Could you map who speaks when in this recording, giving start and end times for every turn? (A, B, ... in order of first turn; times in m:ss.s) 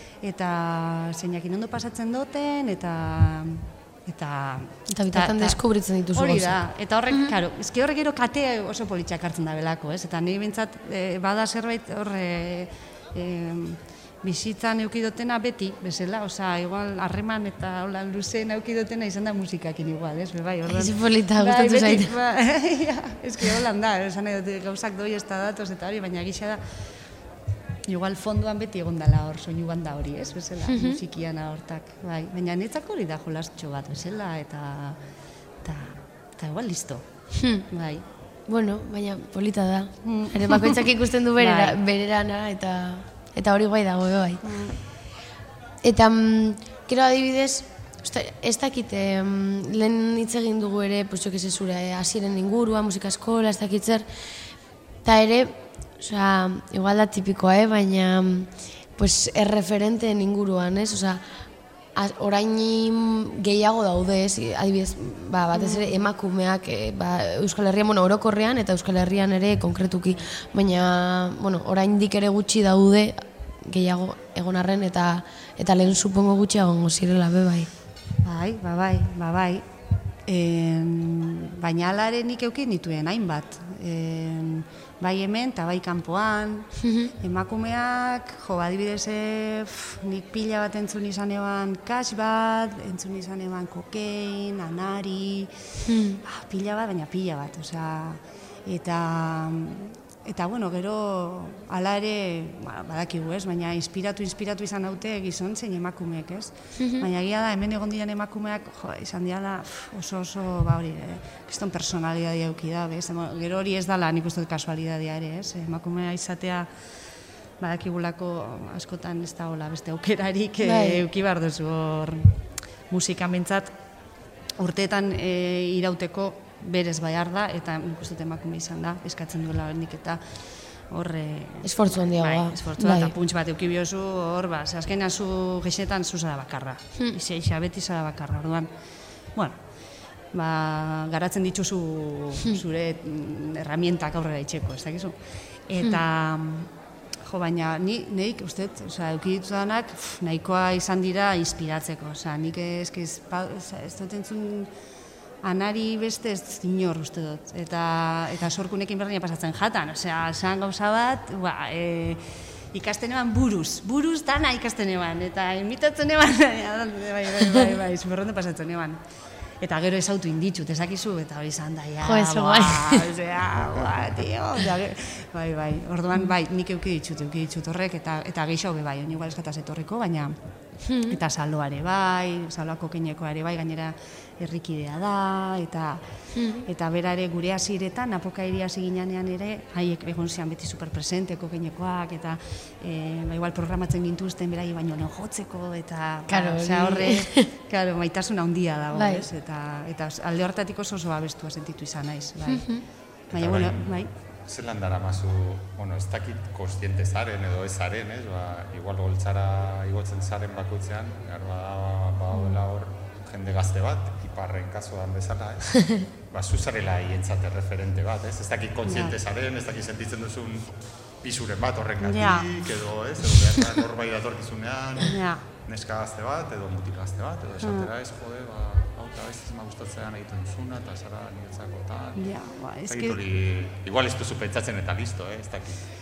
0:00.2-0:26.6 A
0:04.9-0:06.6 B
0:20.7-0:22.1 B
0:27.9-0:35.0 A
0:30.7-0:31.0 B
0:35.6-0:38.0 A
0:37.4-0:37.7 B
0:38.5-0:44.5 B
0:40.0-0:40.8 A
0:41.4-0:41.8 A
0:44.4-0:44.8 A
0:45.8-0:54.4 B
0:55.0-1:17.7 B
1:05.5-1:05.9 A
1:18.2-1:19.6 A
1:20.2-1:35.5 A
1:26.8-1:27.1 B
1:35.8-1:36.2 B
1:36.2-1:56.7 A
1:46.8-1:47.0 B
1:57.6-2:02.4 A
2:00.6-2:01.0 B
2:02.9-2:03.7 A
2:04.6-2:10.2 A
2:10.9-2:18.7 A
2:11.6-2:13.2 B
2:19.4-2:19.7 A
2:20.3-2:25.2 A
2:25.7-2:26.7 A
2:27.2-2:34.7 A
2:35.4-2:49.0 A
2:49.6-3:00.4 A
2:52.0-2:53.1 B
3:00.8-3:01.2 B
3:01.0-3:06.1 A
3:06.3-3:06.7 B
3:06.6-3:24.1 A
3:16.3-3:17.5 B
3:19.0-3:19.2 B
3:22.5-3:22.8 B
3:23.3-3:52.3 C
3:38.9-3:39.2 A
3:42.0-3:42.5 A
3:45.1-3:45.4 A
3:47.6-3:47.9 A
3:52.2-3:53.2 A
3:52.8-3:55.9 C